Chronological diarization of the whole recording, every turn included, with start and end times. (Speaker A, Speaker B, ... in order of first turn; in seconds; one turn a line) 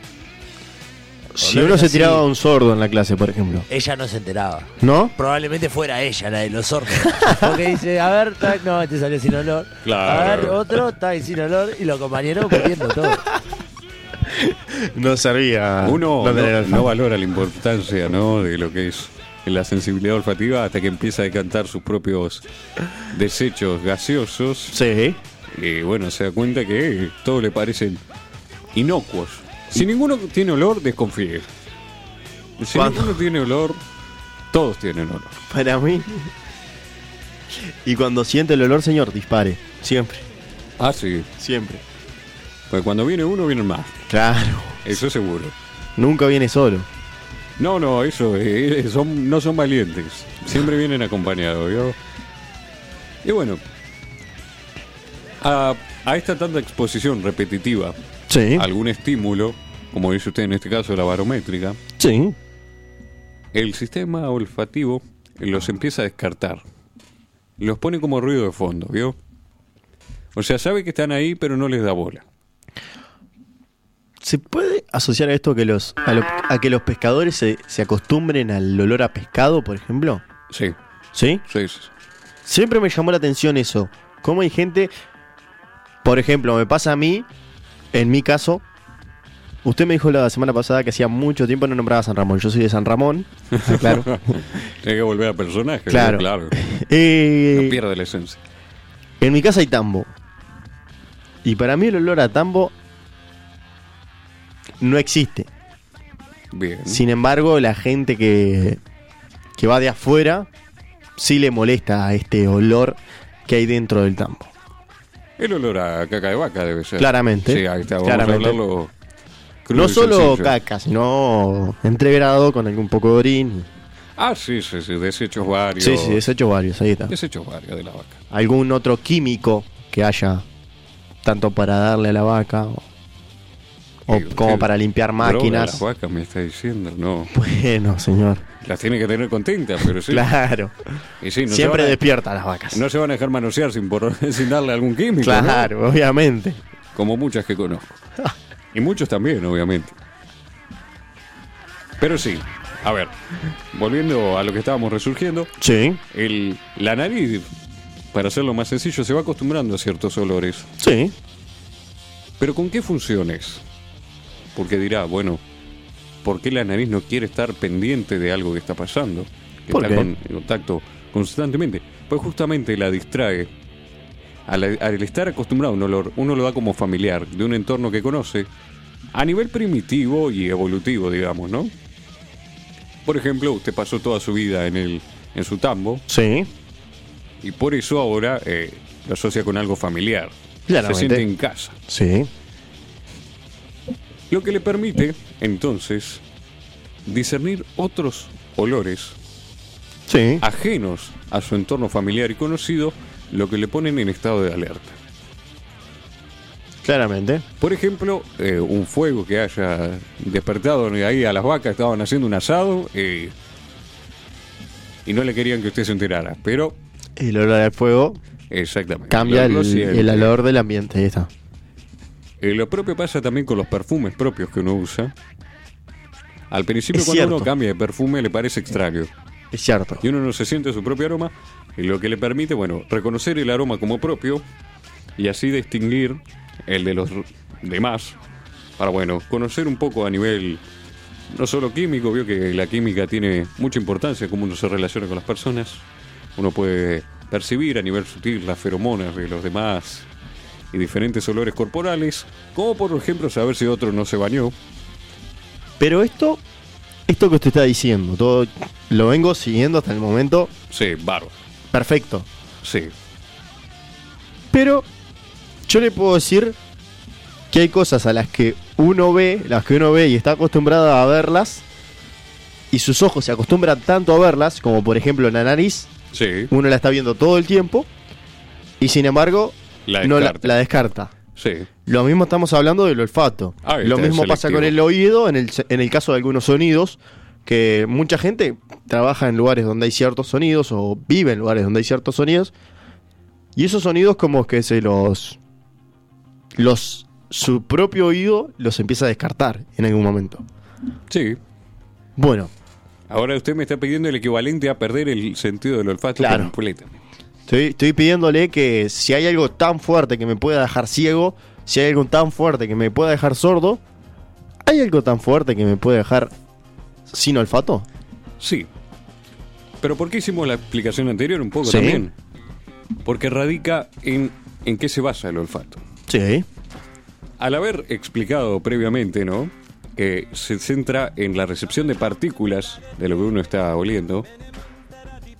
Speaker A: 1.3-3.7
Speaker B: 1.4-2.2
Speaker B: 3.7-13.2
Speaker A: 4.8-5.1
Speaker A: 7.1-7.5
Speaker C: 9.8-10.6
Speaker A: 14.2-16.9
Speaker C: 15.8-22.4
Speaker C: 23.0-24.8
Speaker A: 24.7-25.2
Speaker C: 25.5-28.0
Speaker C: 28.7-31.5
Speaker C: 32.6-33.8
Speaker A: 32.7-33.2
Speaker C: 34.5-35.4
Speaker A: 35.5-36.3
Speaker A: 37.5-40.2
Speaker C: 40.8-41.3
Speaker A: 41.4-41.8
Speaker C: 42.7-44.0
Speaker A: 44.1-44.9
Speaker C: 44.8-45.5
Speaker A: 46.0-46.9
Speaker C: 47.6-52.0
Speaker C: 53.2-53.6
Speaker C: 55.4-58.0
Speaker A: 58.3-58.7
Speaker C: 58.5-61.8
Speaker A: 62.0-62.4
Speaker C: 63.5-66.6
Speaker C: 67.6-69.2
Speaker C: 70.3-72.2
Speaker A: 74.2-80.2
Speaker C: 80.5-80.8
Speaker A: 81.1-81.4
Speaker C: 81.5-81.9
Speaker A: 82.4-84.9
Speaker A: 86.0-87.3
Speaker A: 87.9-88.6
Speaker A: 89.6-94.2
Speaker C: 93.5-96.6
Speaker A: 95.9-97.8
Speaker C: 97.5-98.4
Speaker A: 99.2-100.1
Speaker A: 101.4-102.7
Speaker A: 104.8-105.5
Speaker C: 106.5-107.0
Speaker A: 106.9-108.8
Speaker A: 109.6-110.5
Speaker A: 111.2-114.5
Speaker C: 115.4-118.9
Speaker A: 117.0-118.6
Speaker C: 119.7-120.5
Speaker A: 119.7-123.7
Speaker C: 124.2-126.2
Speaker A: 125.8-127.1
Speaker C: 127.1-128.2
Speaker A: 128.3-130.4
Speaker A: 131.2-132.8
Speaker C: 134.1-134.7
Speaker A: 134.1-135.8
Speaker C: 135.2-137.3
Speaker A: 137.3-138.4
Speaker C: 138.6-140.3
Speaker A: 140.1-140.7
Speaker C: 141.2-142.0
Speaker A: 141.5-142.8
Speaker C: 142.7-145.7
Speaker A: 145.2-146.6
Speaker C: 146.9-148.0
Speaker C: 148.7-149.9
Speaker C: 152.0-155.5
Speaker A: 155.6-156.0
Speaker C: 156.1-157.5
Speaker C: 158.1-160.7
Speaker A: 160.8-161.1
Speaker C: 162.4-163.6
Speaker C: 164.5-165.4
Speaker C: 166.2-173.5
Speaker A: 169.7-170.1
Speaker C: 174.5-178.5
Speaker C: 179.1-181.7
Speaker C: 183.1-186.0
Speaker A: 186.1-186.5
Speaker C: 187.4-191.8
Speaker A: 190.7-191.2
Speaker A: 191.9-192.3
Speaker C: 194.3-196.2
Speaker C: 197.1-199.2
Speaker A: 200.1-200.4
Speaker C: 200.4-205.0
Speaker A: 206.8-207.4
Speaker C: 207.6-213.3
Speaker C: 215.1-216.8
Speaker A: 217.2-218.2
Speaker C: 218.5-220.3
Speaker A: 219.1-221.3
Speaker C: 222.4-225.1
Speaker C: 226.5-229.1
Speaker A: 226.9-227.5
Speaker A: 229.5-230.0
Speaker C: 230.0-234.4
Speaker C: 235.2-238.2
Speaker C: 238.8-240.6
Speaker C: 241.3-245.8
Speaker C: 246.4-250.1
Speaker C: 250.7-254.5
Speaker A: 255.8-256.4
Speaker A: 257.1-260.5
Speaker C: 260.7-261.3
Speaker A: 261.7-262.3
Speaker C: 262.6-262.9
Speaker A: 264.5-264.9
Speaker A: 265.6-266.6
Speaker A: 267.5-271.6
Speaker A: 272.7-275.9
Speaker C: 276.1-276.5
Speaker A: 276.5-277.9
Speaker A: 278.8-281.1
Speaker C: 279.9-280.6
Speaker C: 281.4-281.7
Speaker A: 281.9-292.5
Speaker C: 283.6-284.7
Speaker A: 293.5-295.4
Speaker A: 296.6-300.4
Speaker C: 301.1-301.4
Speaker A: 302.2-302.5
Speaker C: 303.1-307.0
Speaker A: 306.2-306.5
Speaker A: 307.5-313.8
Speaker A: 314.6-316.3
Speaker A: 317.1-317.9
Speaker C: 318.4-318.7
Speaker C: 319.8-322.1
Speaker A: 321.6-322.0
Speaker C: 323.0-325.8
Speaker A: 326.1-326.4
Speaker C: 327.4-334.3